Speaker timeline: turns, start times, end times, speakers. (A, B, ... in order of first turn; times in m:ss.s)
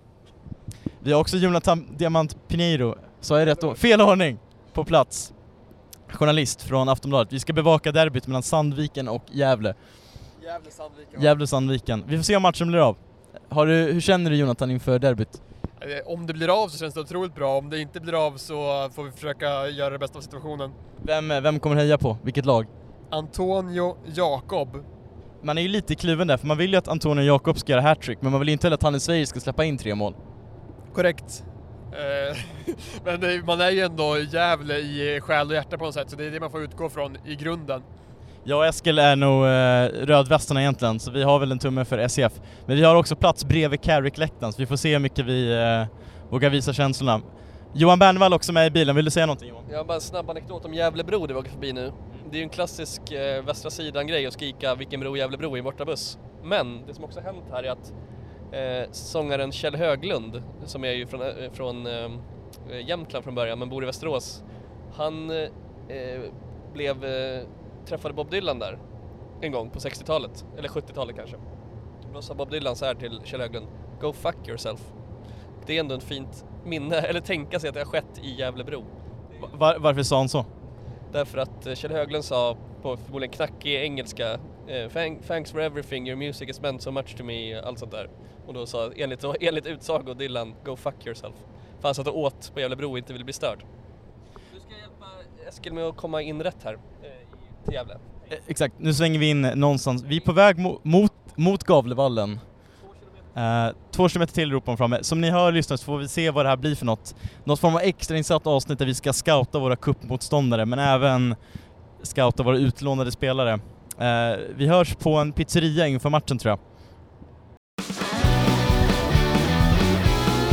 0:01.0-0:09.8 A
0:10.4-0:11.3 B
0:11.2-0:15.4 A
0:15.8-0:20.7 B
0:21.0-0:22.7 A
0:23.1-0:24.8 B
0:25.4-0:30.2 A
0:30.9-0:37.8 B
0:38.4-0:49.6 A
0:49.7-0:57.9 C
0:58.5-1:08.8 C
1:09.4-1:11.4 C
1:12.1-1:14.9 C
1:15.6-1:18.9 C
1:19.4-1:20.5 A
1:21.1-1:33.6 C
1:34.6-1:37.1 C
1:37.6-1:38.0 C
1:38.3-1:42.6 A
1:43.3-1:56.6 A